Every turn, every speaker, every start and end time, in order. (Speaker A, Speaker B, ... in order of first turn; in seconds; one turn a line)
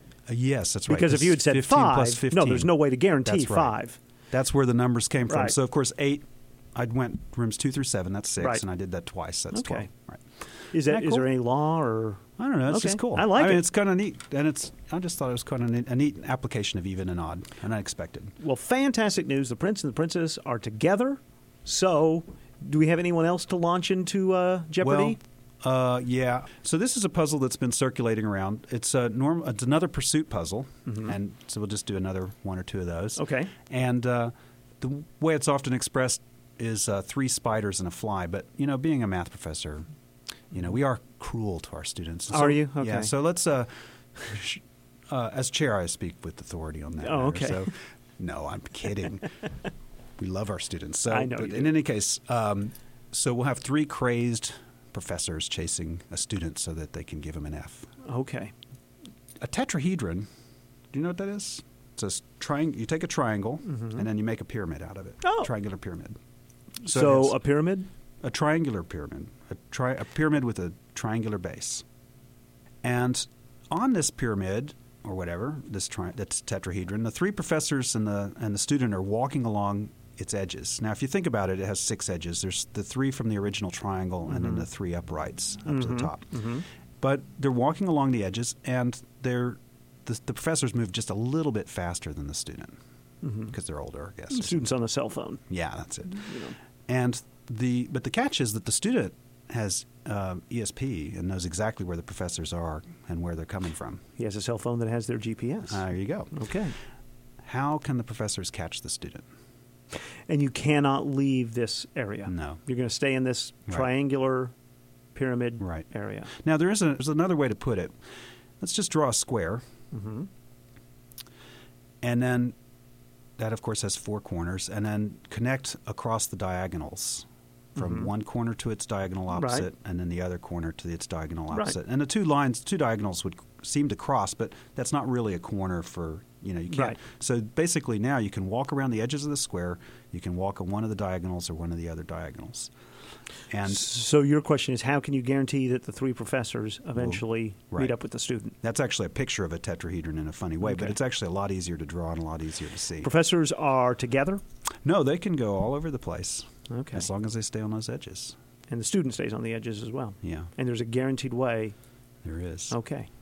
Speaker A: 0.3-3.8
Speaker B: 0.9-4.0
Speaker A: 4.3-10.2
Speaker B: 9.5-9.9
Speaker B: 10.7-13.6
Speaker A: 10.8-11.2
Speaker A: 12.4-18.3
Speaker B: 18.4-25.2
Speaker A: 24.8-39.9
Speaker B: 30.9-31.1
Speaker B: 33.2-33.5
Speaker A: 40.5-49.3
Speaker B: 42.3-43.1
Speaker B: 47.0-47.7
Speaker A: 50.2-57.9
Speaker B: 51.1-51.7
Speaker B: 58.0-58.5
Speaker A: 59.4-60.3
Speaker A: 60.9-66.2
Speaker B: 63.7-64.0
Speaker B: 65.2-65.5
Speaker A: 66.8-67.4
Speaker B: 66.8-67.9
Speaker A: 68.2-71.8
Speaker A: 72.8-92.8
Speaker B: 84.3-84.6
Speaker B: 85.7-86.6
Speaker B: 93.2-93.5
Speaker A: 93.5-94.6
Speaker B: 94.3-95.4
Speaker A: 95.5-104.0
Speaker B: 96.2-96.5
Speaker B: 104.2-106.7
Speaker A: 105.7-106.3
Speaker A: 107.4-109.2
Speaker B: 110.3-114.5
Speaker A: 112.3-112.6
Speaker B: 115.1-116.3
Speaker A: 115.6-117.9
Speaker A: 118.6-119.6
Speaker B: 119.9-120.3
Speaker A: 122.0-122.5
Speaker A: 123.4-127.2
Speaker A: 127.8-142.7
Speaker B: 127.8-128.1
Speaker B: 129.3-129.7
Speaker B: 136.7-137.0
Speaker A: 143.5-143.9
Speaker B: 143.7-148.6
Speaker A: 148.6-153.1
Speaker B: 150.7-150.9
Speaker B: 153.0-154.4
Speaker A: 154.8-158.4
Speaker B: 156.7-157.1
Speaker B: 158.7-161.8
Speaker A: 160.2-160.5
Speaker A: 162.2-162.8
Speaker B: 162.7-163.1